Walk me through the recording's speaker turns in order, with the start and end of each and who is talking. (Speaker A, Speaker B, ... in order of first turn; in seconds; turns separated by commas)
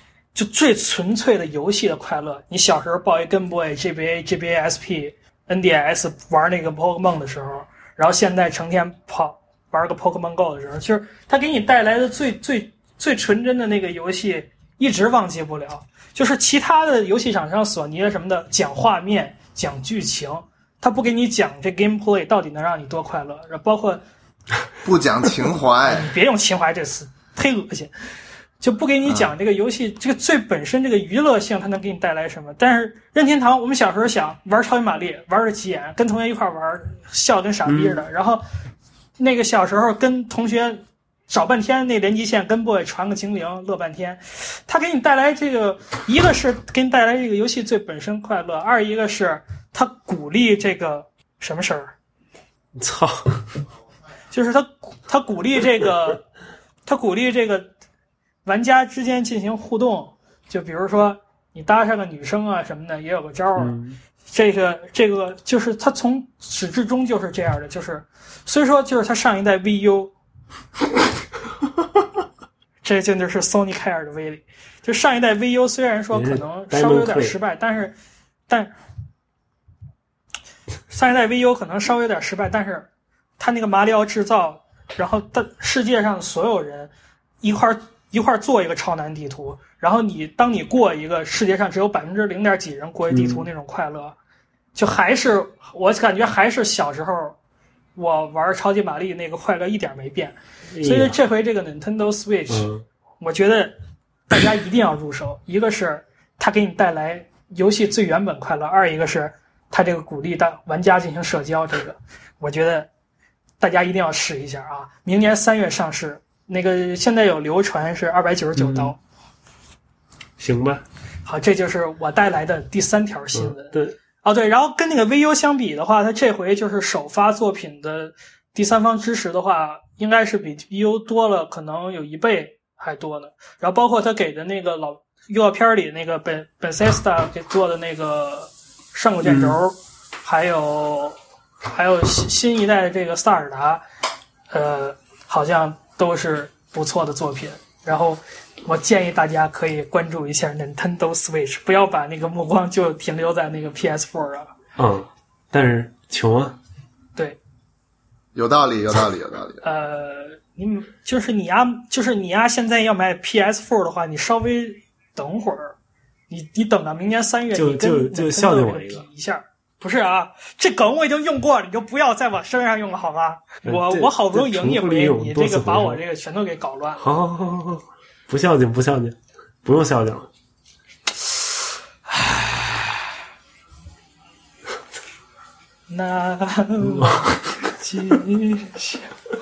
Speaker A: 0.3-24.0, Speaker B: 24.8-26.1, Speaker A: 25.8-27.9, Speaker A: 28.6-38.4, Speaker B: 29.1-29.3, Speaker C: 37.6-38.0, Speaker A: 39.2-51.9, Speaker C: 52.8-53.6, Speaker A: 54.3-56.2, Speaker A: 56.9-57.7, Speaker A: 58.4-63.8, Speaker C: 63.6-64.0, Speaker A: 64.3-70.1, Speaker A: 72.8-78.0, Speaker C: 76.1-77.4, Speaker A: 78.5-78.7, Speaker A: 80.9-94.1, Speaker C: 93.1-93.5, Speaker A: 94.7-97.4, Speaker A: 98.0-102.7, Speaker C: 100.7-101.2, Speaker C: 102.5-102.8, Speaker A: 103.2-103.8, Speaker A: 104.3-112.9, Speaker A: 113.6-119.0, Speaker C: 118.5-118.9, Speaker C: 120.4-120.8, Speaker A: 121.2-143.8, Speaker C: 123.3-123.9, Speaker C: 139.2-139.6, Speaker A: 144.5-154.6, Speaker C: 154.8-156.6, Speaker B: 158.3-159.6, Speaker A: 159.6-165.7, Speaker A: 166.3-177.1, Speaker C: 167.5-169.0, Speaker C: 173.6-176.0, Speaker C: 177.0-180.3, Speaker A: 182.1-183.1, Speaker A: 185.9-189.1, Speaker C: 186.8-187.4